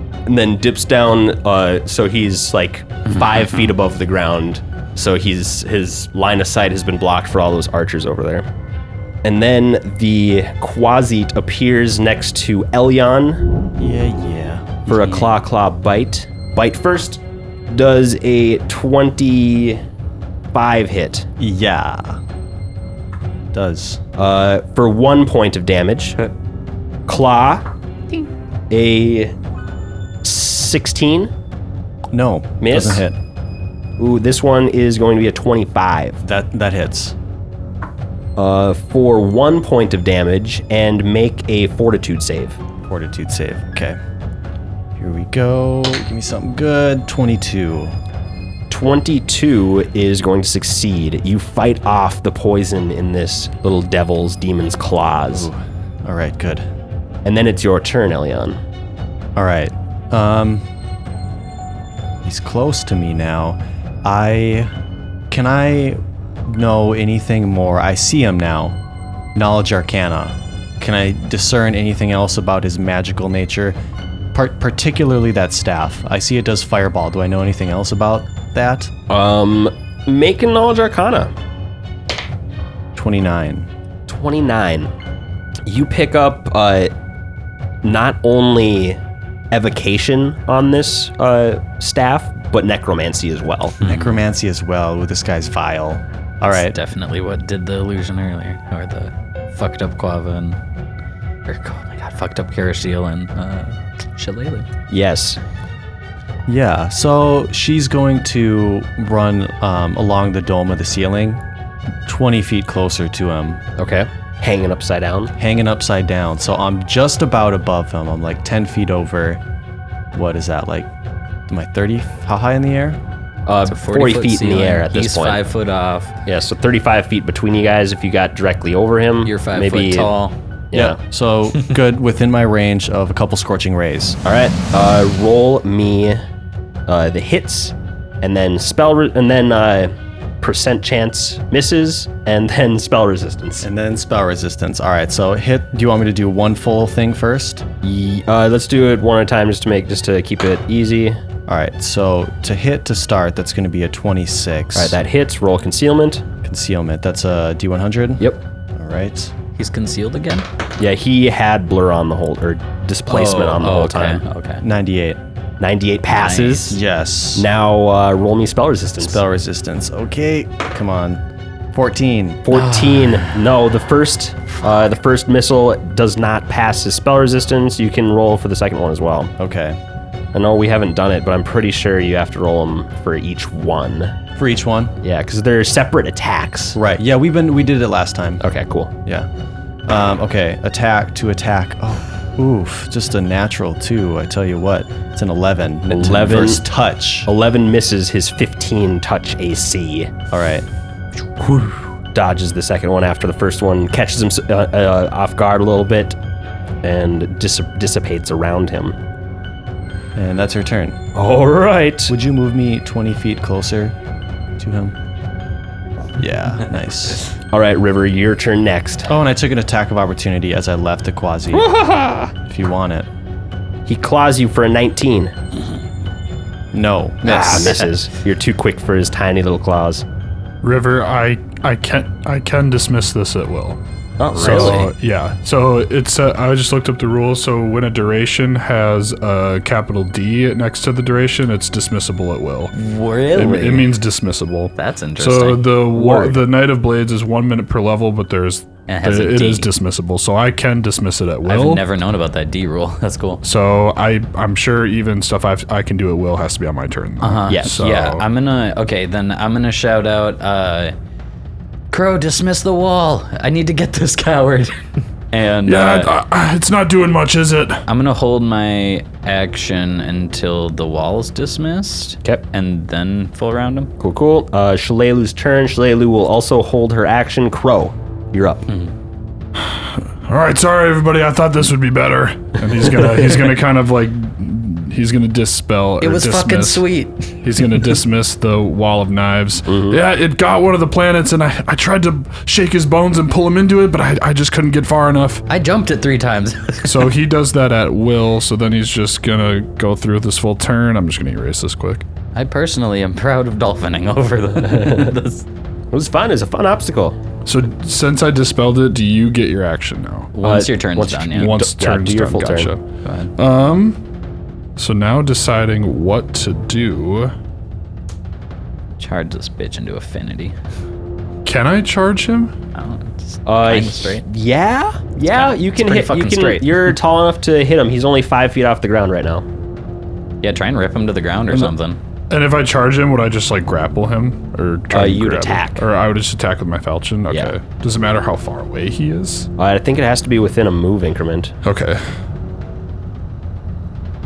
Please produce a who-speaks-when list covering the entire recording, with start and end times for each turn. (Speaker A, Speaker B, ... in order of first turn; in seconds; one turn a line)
Speaker A: 0.2-8.5
Speaker A: 9.2-13.4
Speaker B: 13.8-15.0
Speaker A: 14.9-19.8
Speaker A: 20.5-21.3
Speaker B: 21.4-22.2
Speaker B: 23.5-24.0
Speaker A: 24.2-26.3
Speaker A: 27.1-27.7
Speaker A: 28.7-29.4
Speaker A: 30.2-31.3
Speaker B: 32.1-33.1
Speaker A: 32.6-33.0
Speaker A: 34.0-36.2
Speaker B: 36.2-37.1
Speaker A: 38.4-42.6
Speaker B: 42.9-44.0
Speaker B: 45.0-48.0
Speaker A: 48.7-55.5
Speaker B: 55.3-56.6
Speaker A: 57.2-58.6
Speaker B: 59.4-60.6
Speaker B: 62.2-64.7
Speaker B: 65.3-68.8
Speaker B: 69.3-73.8
Speaker B: 74.3-78.9
Speaker A: 79.1-81.3
Speaker B: 82.9-83.7
Speaker A: 84.1-84.9
Speaker A: 85.7-86.9
Speaker A: 87.8-89.0
Speaker A: 89.5-93.8
Speaker C: 93.8-94.2
Speaker B: 93.8-96.8
Speaker C: 96.5-100.6
Speaker C: 101.5-104.7
Speaker A: 104.9-105.4
Speaker B: 106.5-111.4
Speaker B: 112.0-113.6
Speaker A: 113.8-115.3
Speaker B: 115.4-119.4
Speaker B: 120.1-120.9
Speaker B: 121.5-123.0
Speaker A: 123.5-125.4
Speaker C: 123.7-126.1
Speaker A: 126.2-130.1
Speaker C: 129.2-130.3
Speaker A: 130.7-131.0
Speaker B: 130.7-134.2
Speaker A: 134.2-136.2
Speaker A: 136.9-143.6
Speaker B: 143.6-147.6
Speaker A: 147.8-151.2
Speaker B: 151.5-155.0
Speaker A: 154.7-156.2
Speaker B: 156.4-159.3
Speaker C: 159.6-160.5
Speaker A: 160.8-164.2
Speaker C: 163.1-164.6
Speaker B: 164.6-165.2
Speaker A: 165.6-166.8
Speaker C: 166.1-166.7
Speaker B: 166.7-167.5
Speaker A: 167.3-169.2
Speaker B: 169.0-171.2
Speaker B: 171.7-172.4
Speaker A: 172.4-179.3
Speaker C: 172.5-173.4
Speaker B: 179.4-179.8
Speaker A: 180.3-184.1
Speaker B: 184.4-184.9
Speaker A: 185.0-186.8
Speaker B: 186.8-188.4
Speaker A: 188.4-188.9
Speaker B: 189.9-197.3
Speaker A: 195.9-196.6
Speaker A: 197.2-200.1
Speaker B: 200.3-200.7
Speaker A: 201.4-206.2
Speaker A: 206.8-208.9
Speaker B: 210.1-211.0
Speaker A: 211.1-212.1
Speaker B: 212.1-213.9
Speaker B: 214.6-214.9
Speaker B: 216.2-217.2
Speaker A: 217.5-219.1
Speaker B: 219.1-221.7
Speaker A: 221.5-222.3
Speaker B: 222.4-223.1
Speaker A: 223.8-225.3
Speaker B: 226.7-227.8
Speaker A: 227.2-230.0
Speaker C: 227.3-227.7
Speaker D: 230.6-233.8
Speaker A: 234.2-234.9
Speaker C: 234.3-234.9
Speaker D: 234.3-242.7
Speaker C: 242.7-243.9
Speaker D: 243.3-251.8
Speaker C: 244.8-245.6
Speaker A: 245.9-246.4
Speaker C: 248.9-249.7
Speaker C: 251.4-253.4
Speaker D: 253.4-258.2
Speaker C: 257.2-260.9
Speaker A: 257.5-257.8
Speaker C: 261.9-266.1
Speaker D: 265.6-267.8
Speaker C: 267.9-273.9
Speaker A: 274.0-278.6
Speaker D: 279.6-286.8
Speaker C: 286.0-287.4
Speaker D: 287.4-295.4
Speaker A: 289.7-290.0
Speaker C: 295.5-297.1
Speaker D: 296.8-302.1
Speaker C: 302.3-305.4
Speaker A: 304.6-305.1
Speaker A: 305.9-307.2
Speaker D: 307.4-310.3
Speaker C: 310.3-311.5
Speaker A: 310.4-312.7
Speaker D: 311.3-312.8
Speaker C: 313.0-313.3
Speaker D: 313.4-314.0
Speaker D: 314.8-317.3
Speaker C: 319.0-320.5
Speaker D: 321.4-322.5
Speaker C: 322.7-324.2
Speaker A: 323.4-329.4
Speaker C: 325.2-327.0
Speaker C: 330.4-332.0
Speaker D: 332.3-339.5
Speaker A: 334.9-335.8
Speaker A: 337.3-337.5
Speaker A: 339.6-341.5
Speaker D: 341.6-342.0